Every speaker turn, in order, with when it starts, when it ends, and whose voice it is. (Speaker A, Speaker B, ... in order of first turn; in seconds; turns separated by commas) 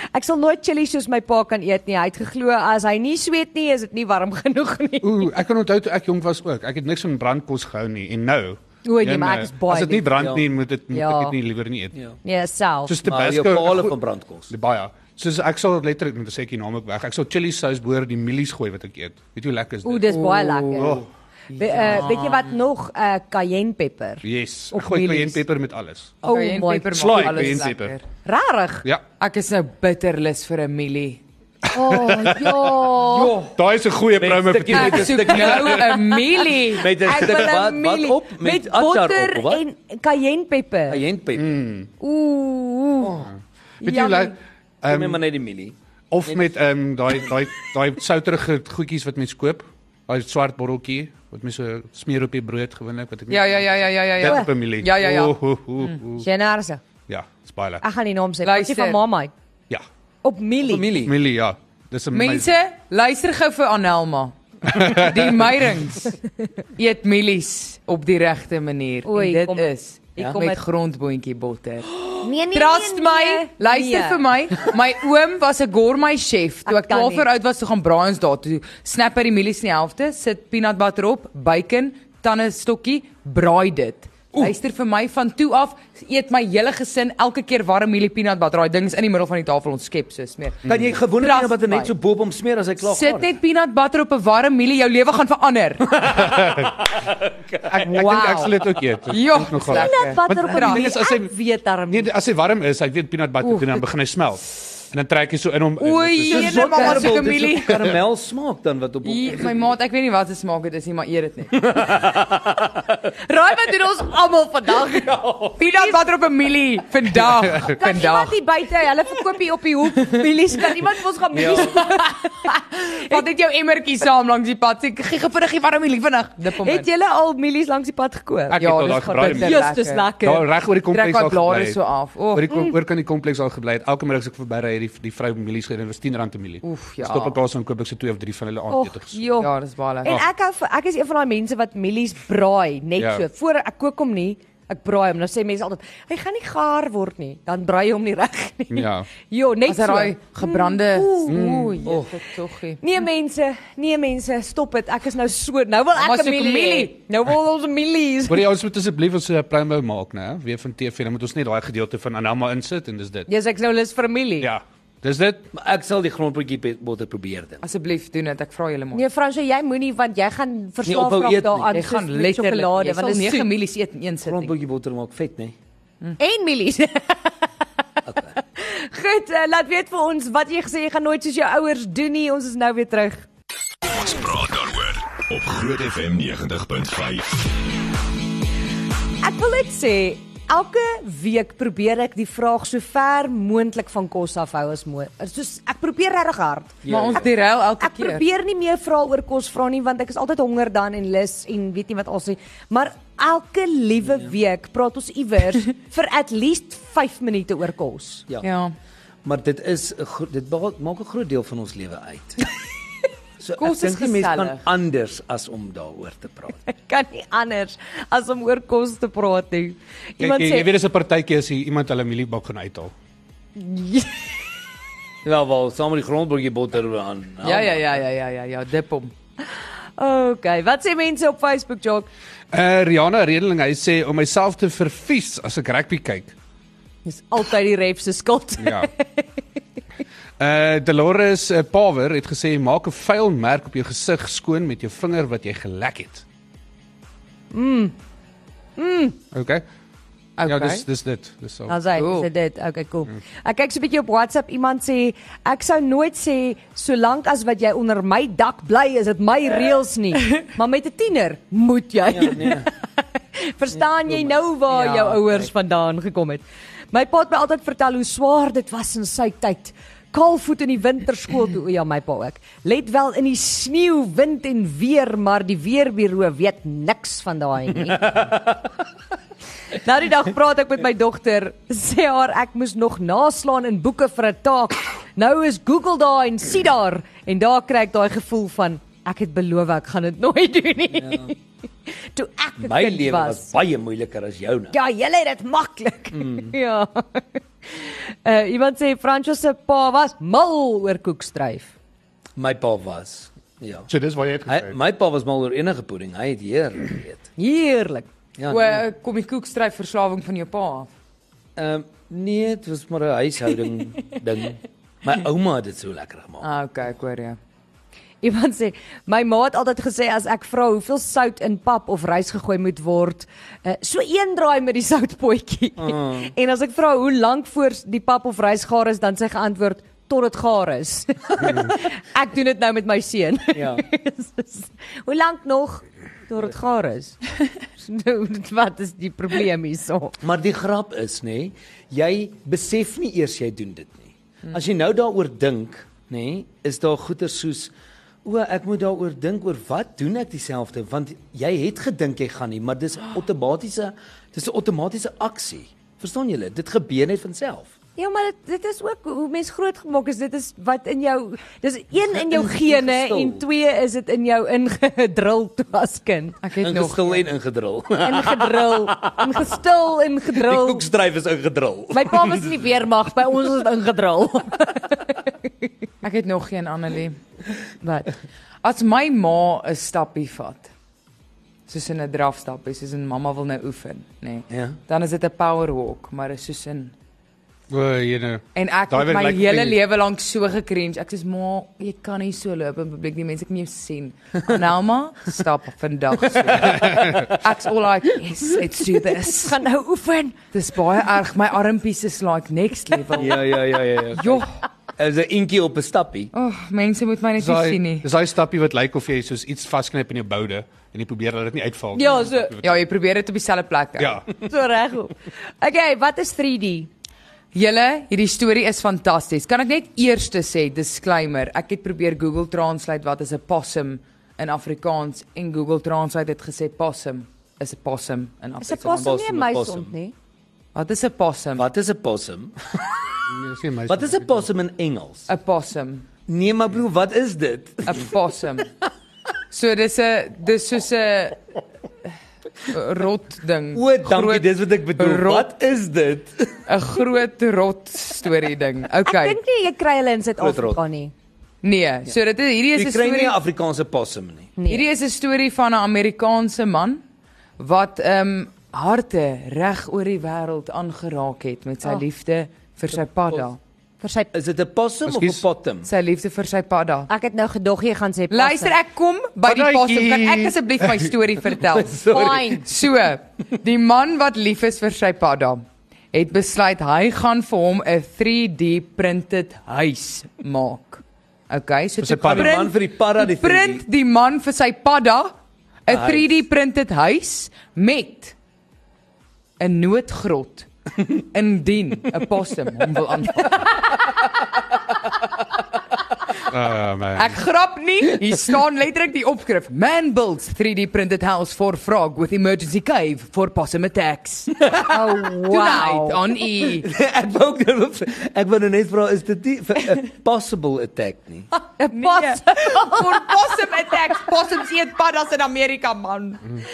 Speaker A: 0.1-5.3, Speaker B: 5.0-11.9, Speaker A: 8.8-10.2, Speaker C: 10.1-10.4, Speaker A: 10.9-11.3, Speaker A: 12.2-13.0, Speaker B: 12.8-13.9, Speaker C: 13.0-14.5, Speaker B: 14.5-21.1, Speaker A: 19.8-21.0, Speaker D: 20.1-22.5, Speaker A: 21.6-25.4, Speaker B: 24.2-26.2, Speaker A: 26.2-27.6, Speaker D: 26.2-28.0, Speaker B: 26.9-27.9, Speaker A: 28.2-28.8, Speaker D: 29.2-31.2, Speaker B: 31.7-32.9, Speaker A: 31.7-33.4, Speaker D: 33.0-33.5, Speaker B: 33.5-35.8, Speaker C: 34.2-35.9, Speaker D: 34.7-36.9, Speaker A: 35.9-41.0, Speaker C: 36.8-39.6, Speaker C: 40.9-41.5, Speaker B: 41.3-41.9, Speaker A: 42.0-43.1, Speaker C: 43.0-43.3, Speaker B: 43.8-45.2, Speaker A: 43.8-44.3, Speaker C: 44.9-45.7, Speaker B: 46.1-56.2, Speaker D: 53.3-55.4, Speaker A: 54.2-54.5, Speaker A: 56.2-56.8, Speaker B: 57.1-57.8, Speaker A: 57.8-59.3, Speaker D: 58.4-59.0, Speaker A: 60.2-60.9, Speaker C: 60.6-61.1, Speaker B: 61.0-62.5, Speaker D: 62.1-66.2, Speaker B: 64.7-65.4, Speaker D: 66.8-90.6, Speaker A: 69.0-70.6, Speaker A: 72.2-74.2, Speaker A: 76.7-77.3, Speaker B: 90.7-90.9, Speaker C: 90.7-93.3, Speaker D: 91.2-91.9, Speaker D: 92.8-96.0, Speaker C: 95.9-97.8, Speaker B: 96.2-96.8, Speaker B: 97.7-101.3, Speaker D: 97.8-98.5, Speaker D: 99.1-100.9, Speaker A: 99.7-102.1, Speaker B: 101.9-106.7, Speaker D: 103.4-103.7, Speaker D: 105.8-107.9, Speaker C: 106.3-109.7, Speaker A: 106.4-107.3, Speaker D: 109.0-111.6, Speaker C: 111.5-113.1, Speaker A: 113.3-116.0, Speaker C: 115.0-115.6, Speaker D: 115.6-118.4, Speaker A: 117.5-123.3, Speaker C: 121.3-121.8, Speaker D: 121.5-126.9, Speaker A: 126.6-130.4, Speaker B: 128.5-129.7, Speaker D: 128.6-130.1, Speaker B: 130.2-131.8, Speaker D: 130.9-132.5, Speaker B: 132.3-139.2, Speaker D: 136.6-137.4, Speaker A: 138.7-151.7, Speaker D: 139.3-140.2, Speaker B: 143.0-143.2, Speaker B: 148.7-149.1, Speaker D: 149.7-152.8, Speaker B: 151.3-151.8, Speaker C: 151.8-152.2, Speaker A: 152.8-158.5, Speaker D: 155.9-156.9, Speaker B: 158.3-163.3, Speaker A: 163.3-164.5, Speaker B: 164.4-165.4, Speaker C: 165.5-167.6, Speaker D: 167.6-169.0, Speaker A: 168.9-173.5, Speaker C: 170.8-171.8, Speaker D: 171.7-174.5, Speaker C: 174.2-175.5, Speaker A: 176.2-177.3, Speaker C: 178.1-178.3, Speaker A: 178.6-183.2, Speaker E: 183.8-187.5, Speaker A: 189.2-196.8, Speaker C: 196.8-197.3, Speaker D: 196.9-198.2, Speaker A: 197.8-208.2, Speaker D: 208.4-208.7, Speaker C: 209.2-212.5, Speaker C: 213.4-216.6, Speaker D: 213.6-214.6, Speaker A: 216.7-220.7, Speaker B: 220.2-222.9, Speaker A: 223.6-224.2, Speaker C: 225.2-227.8, Speaker D: 227.4-229.1, Speaker A: 230.0-232.1, Speaker B: 232.5-236.3, Speaker A: 237.0-239.2, Speaker B: 238.6-238.9, Speaker B: 240.4-246.2, Speaker A: 247.5-247.9, Speaker A: 248.8-249.2, Speaker B: 249.3-249.6, Speaker D: 250.4-250.8, Speaker B: 250.4-251.7, Speaker A: 251.7-262.7, Speaker D: 251.9-252.3, Speaker C: 262.1-262.7, Speaker A: 263.3-278.2, Speaker D: 264.7-265.5, Speaker C: 278.0-278.4, Speaker A: 279.7-291.4, Speaker C: 291.0-291.3, Speaker A: 292.1-293.5, Speaker C: 292.6-294.7, Speaker A: 294.7-301.7, Speaker C: 296.1-296.5, Speaker C: 302.4-303.9, Speaker B: 303.9-304.8, Speaker C: 304.5-307.2, Speaker A: 307.4-308.1, Speaker C: 308.4-308.8, Speaker D: 308.5-310.9, Speaker C: 311.6-316.5, Speaker D: 316.4-317.4, Speaker A: 318.2-337.2, Speaker C: 325.8-326.3, Speaker C: 333.5-333.8, Speaker A: 337.8-340.2, Speaker C: 340.2-347.7, Speaker C: 348.2-357.7, Speaker A: 358.0-366.4, Speaker C: 362.1-363.4, Speaker D: 366.4-367.2, Speaker C: 366.6-369.5, Speaker A: 368.0-370.9, Speaker C: 370.3-372.6, Speaker A: 371.9-375.3, Speaker D: 376.0-377.2, Speaker A: 377.8-378.1, Speaker D: 378.6-380.7, Speaker D: 381.7-386.9, Speaker C: 384.5-384.8, Speaker B: 387.7-389.8, Speaker D: 388.5-399.6, Speaker B: 396.6-397.3, Speaker A: 399.0-400.4, Speaker D: 400.5-403.6, Speaker C: 403.1-406.3, Speaker D: 404.1-404.5, Speaker D: 406.3-408.1, Speaker B: 407.4-412.8, Speaker A: 411.9-412.6, Speaker D: 412.6-414.2, Speaker B: 414.0-414.2, Speaker A: 414.4-416.9, Speaker D: 417.5-429.1, Speaker A: 428.6-430.1, Speaker C: 429.0-429.9, Speaker D: 430.7-431.6, Speaker C: 431.6-432.8, Speaker B: 433.3-434.4, Speaker C: 433.9-435.3, Speaker D: 435.3-436.1, Speaker C: 436.3-438.1, Speaker D: 437.9-438.7, Speaker D: 439.5-441.4, Speaker D: 442.7-445.5, Speaker C: 443.7-446.6, Speaker D: 446.7-449.4, Speaker A: 449.1-451.1, Speaker C: 450.4-450.8, Speaker D: 451.6-453.4, Speaker C: 452.7-454.5, Speaker A: 454.6-454.9, Speaker D: 454.7-457.0, Speaker D: 457.6-463.6, Speaker A: 464.0-464.3, Speaker C: 464.3-465.9, Speaker B: 465.1-465.4, Speaker D: 465.8-467.1, Speaker A: 467.1-468.8, Speaker D: 468.3-485.3, Speaker B: 469.4-471.1, Speaker C: 471.5-472.6, Speaker A: 472.1-472.7, Speaker B: 482.0-482.6, Speaker C: 482.2-483.8, Speaker D: 485.9-488.3, Speaker C: 485.9-486.4, Speaker D: 489.6-494.1, Speaker B: 496.5-497.4, Speaker D: 497.1-506.9, Speaker A: 504.8-506.2, Speaker C: 506.8-511.5, Speaker A: 511.8-513.5, Speaker D: 511.9-516.4